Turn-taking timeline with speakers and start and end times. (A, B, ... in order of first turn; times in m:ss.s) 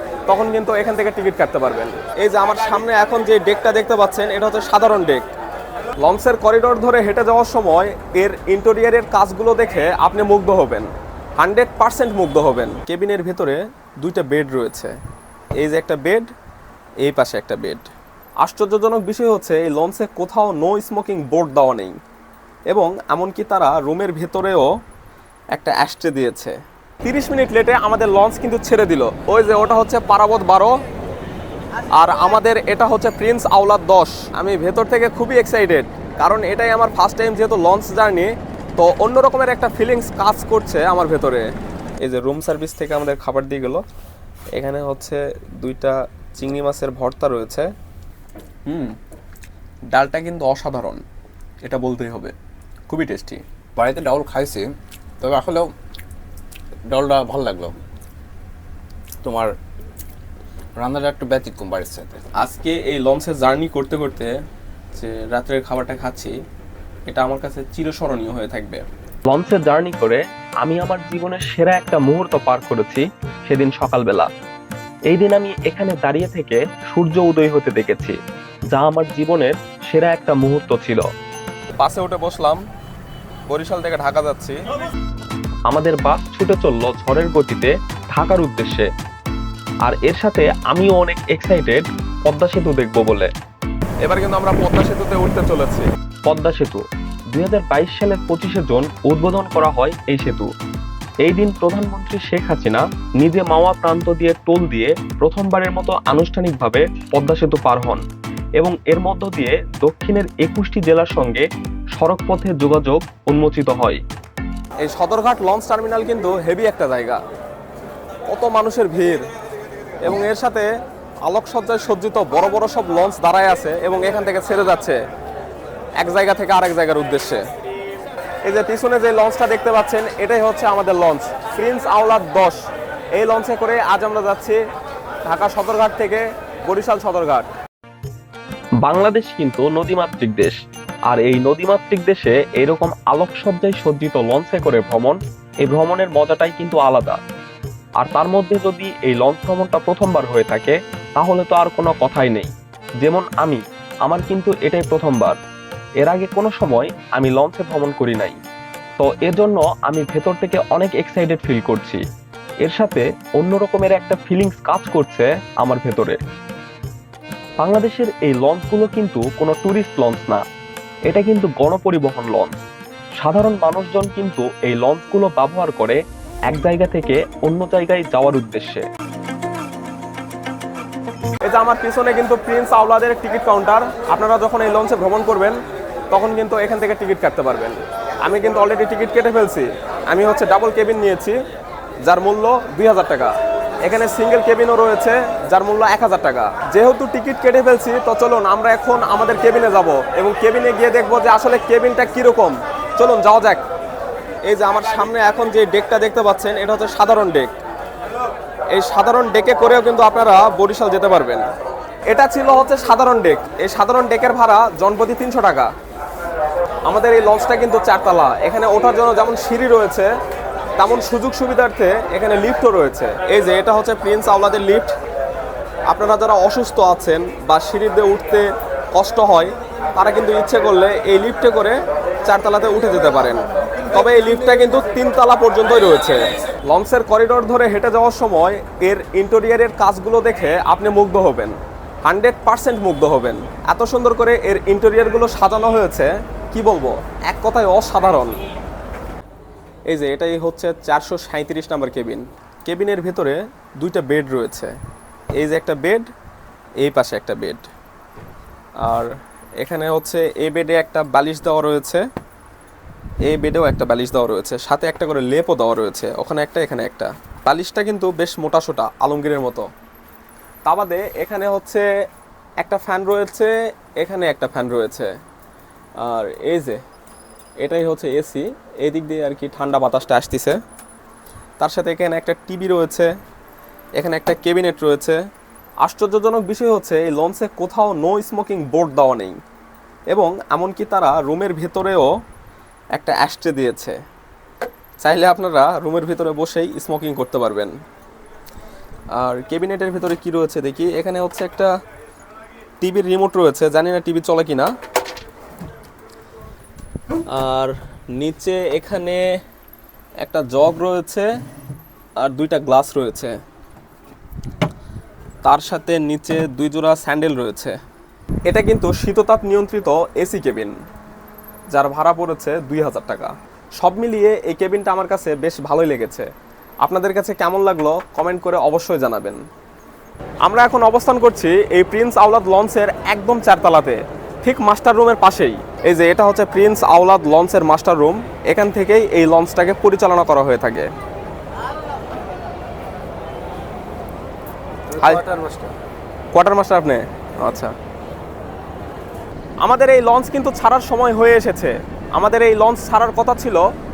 0:00.3-0:05.3 A
0:06.0-0:15.0 A
0:15.6-0:16.3 A
0:17.0-0:17.9 A
0:18.4-0:22.0 A
0:22.7-0:24.7 A
0:25.5-0:30.7 A
0:32.0-0:41.4 A
0:42.0-0:43.8 A
0:44.6-0:47.7 A
0:48.7-0:48.9 A
0:49.9-0:51.0 A
0:51.6-0:52.3 A
0:52.9-0:53.4 A
0:53.8-0:54.7 B
0:55.2-0:55.7 B
0:56.9-0:57.8 B
0:59.2-0:59.5 B
1:00.8-1:02.2 B
1:02.4-1:04.3 A
1:05.0-1:06.3 A
1:07.1-1:08.8 A
1:09.3-1:14.3 C
1:15.1-1:18.2 C
1:18.7-1:21.0 C
1:21.8-1:22.6 A
1:23.5-1:24.6 A
1:25.7-1:28.9 C
1:29.8-1:33.3 C
1:34.0-1:35.9 A
1:36.3-1:40.5 C
1:41.2-1:48.0 C
1:48.6-1:54.0 C
1:54.8-1:57.2 A
1:58.3-1:59.2 A
2:00.0-2:00.7 A
2:01.2-2:05.0 A
2:06.0-2:07.4 A
2:08.4-2:12.6 A
2:13.2-2:14.6 A
2:15.3-2:17.5 A
2:18.8-2:20.6 C
2:21.1-2:27.2 C
2:28.0-2:35.4 C
2:36.0-2:38.4 C
2:39.0-2:42.0 C
2:42.6-2:46.2 C
2:47.6-2:50.4 C
2:51.1-2:52.5 C
2:53.2-2:58.8 C
3:01.4-3:05.6 A
3:06.1-3:11.4 A
3:12.0-3:23.6 A
3:24.5-3:27.6 A
3:28.7-3:31.4 A
3:32.1-3:35.7 A
3:36.9-3:40.1 A
3:40.8-3:44.9 A
3:45.9-4:08.4 A
4:09.9-4:14.7 A
4:15.4-4:16.1 A
4:16.8-4:17.6 A
4:18.8-4:22.0 A
4:23.2-4:29.7 A
4:30.6-4:31.8 A
4:32.6-4:35.1 A
4:36.0-4:36.8 A
4:37.6-4:40.6 A
4:41.6-4:43.1 A
4:44.0-4:45.2 A
4:45.8-4:49.4 A
4:50.1-4:52.1 A
4:53.0-4:54.0 A
4:55.0-4:57.7 A
4:59.2-5:01.7 A
5:02.8-5:04.7 A
5:07.3-5:09.2 A
5:10.2-5:11.3 A
5:12.2-5:13.4 A
5:15.4-5:17.8 A
5:18.5-5:20.7 A
5:21.7-5:26.3 A
5:26.8-5:29.4 A
5:30.4-5:40.9 A
5:45.0-5:45.3 A
5:45.4-5:45.6 B
5:46.3-5:47.7 A
5:49.6-5:53.6 A